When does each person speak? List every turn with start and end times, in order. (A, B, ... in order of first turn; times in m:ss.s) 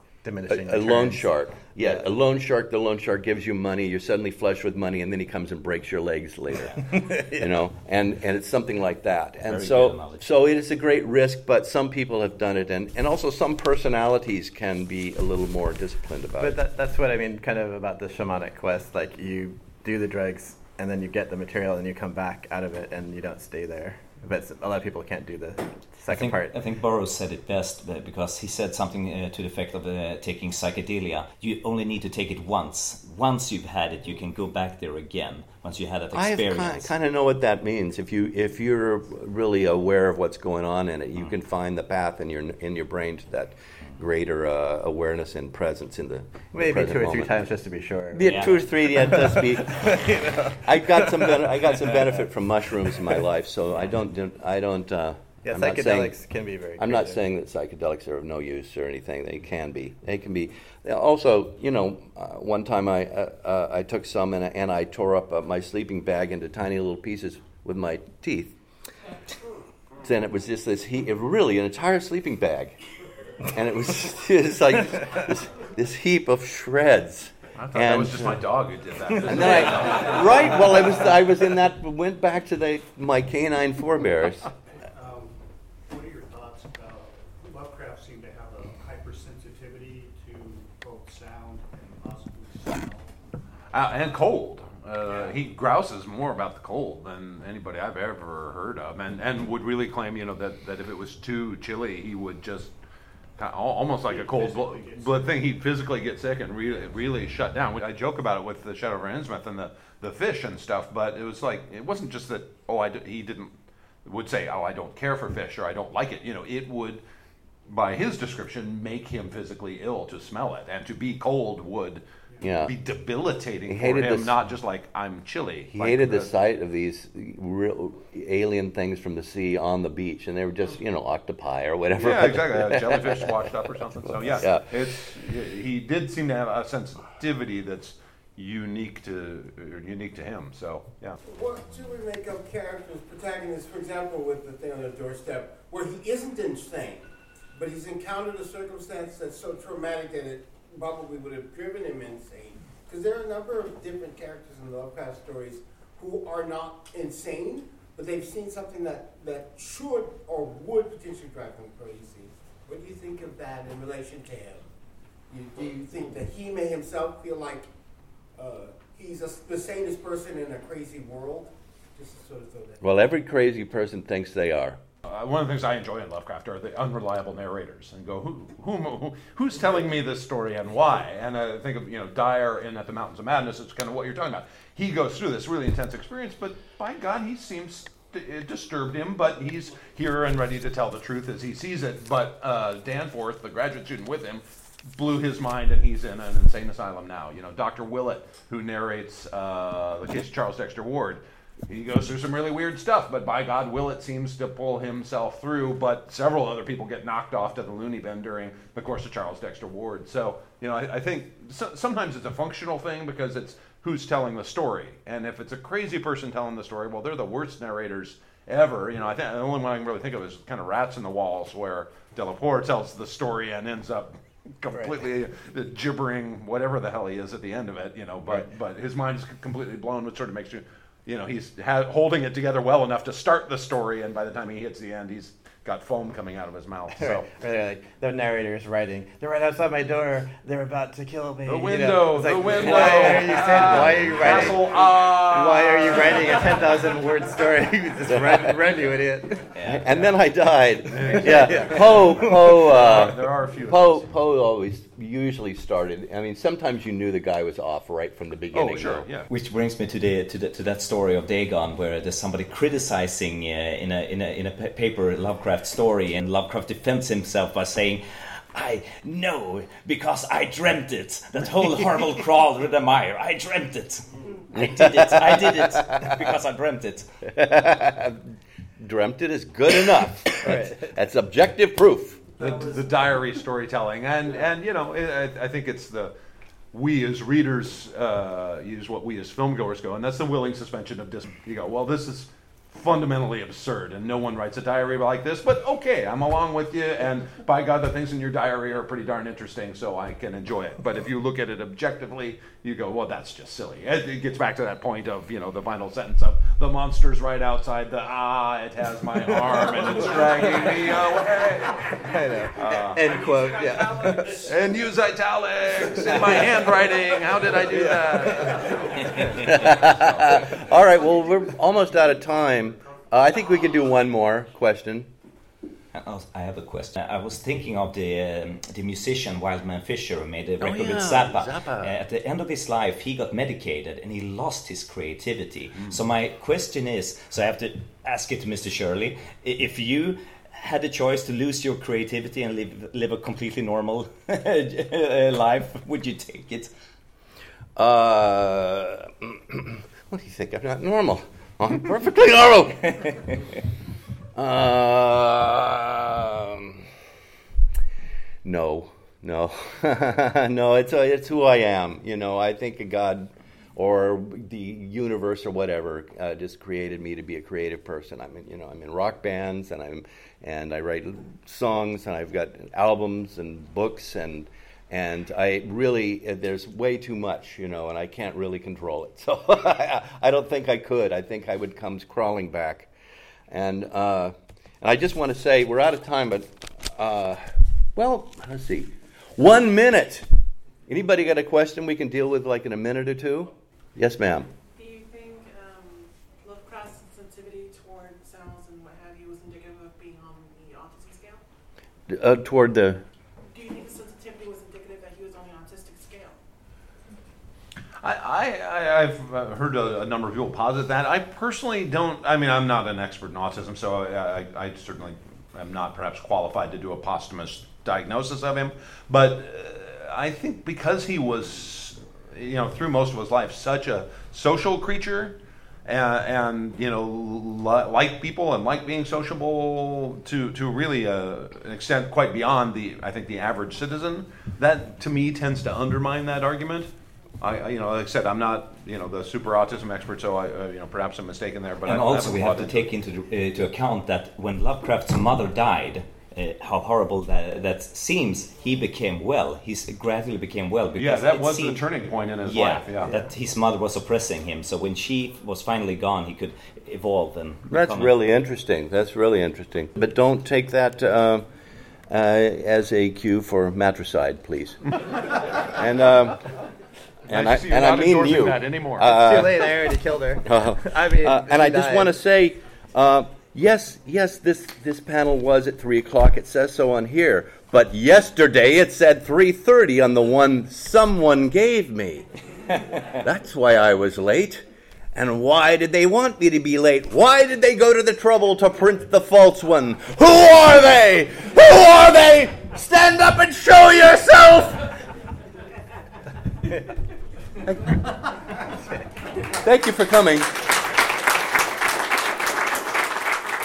0:00.2-0:02.0 A
0:00.5-0:16.6 B
0:06.9-0:07.5 A
0:09.4-0:10.3 C
0:16.4-0:26.6 A
0:26.1-0:36.9 C
0:36.1-0:47.3 B
0:46.5-0:48.5 A
0:48.1-0:56.2 B
0:48.2-0:48.7 C
0:49.0-0:51.4 A
0:55.4-0:57.2 A
0:56.8-1:08.6 B
1:10.0-1:12.8 B
1:13.4-1:18.4 B
1:17.6-1:21.0 D
1:19.2-1:24.5 B
1:24.9-1:33.4 E
1:33.7-1:42.7 D
1:35.0-1:35.4 E
1:43.4-1:53.5 D
1:44.0-1:45.5 E
1:54.0-1:57.0 D
1:57.7-2:06.3 D
2:02.4-2:02.7 B
2:03.7-2:04.4 B
2:05.7-2:13.3 B
2:11.9-2:21.2 D
2:14.0-2:14.9 B
2:21.2-2:44.7 F
2:45.3-2:47.7 F
2:48.4-2:52.8 F
2:52.8-2:54.8 B
2:55.0-3:57.3 D
3:44.7-3:45.1 A
3:57.0-4:09.5 A
4:01.5-4:06.6 D
4:08.1-4:08.5 B
4:09.6-4:10.1 C
4:09.6-4:19.1 B
4:10.9-4:14.2 D
4:11.2-4:12.4 A
4:18.5-4:19.3 D
4:19.3-4:37.3 C
4:34.5-4:36.3 B
4:37.3-4:42.3 B
4:40.4-4:40.9 A
4:42.4-4:46.1 D
4:46.7-5:12.0 D
5:09.6-5:10.5 A
5:12.0-5:14.5 A
5:12.6-5:13.3 D
5:14.0-5:19.2 D
5:16.0-5:16.5 A
5:17.7-5:18.8 A
5:19.0-5:19.8 C
5:19.3-5:25.1 B
5:25.9-5:46.7 C
5:30.6-5:32.0 B
5:47.8-5:53.2 B
5:54.4-5:56.9 B
5:58.4-6:22.9 B
6:23.5-6:30.3 B
6:30.9-6:34.5 B
6:34.7-6:41.4 G
6:42.1-6:43.0 B
6:43.5-6:46.4 G
6:48.0-7:16.9 D
7:17.4-7:22.8 D
7:21.9-7:31.9 C
7:31.0-7:33.2 D
7:32.4-7:38.2 C
7:37.7-7:41.5 B
7:42.1-7:45.0 B
7:45.6-7:46.4 B
7:47.3-7:49.8 B
7:47.3-7:49.2 D
7:49.0-7:52.2 A
7:50.4-8:02.3 B
8:03.1-8:15.0 B
8:19.5-8:20.5 B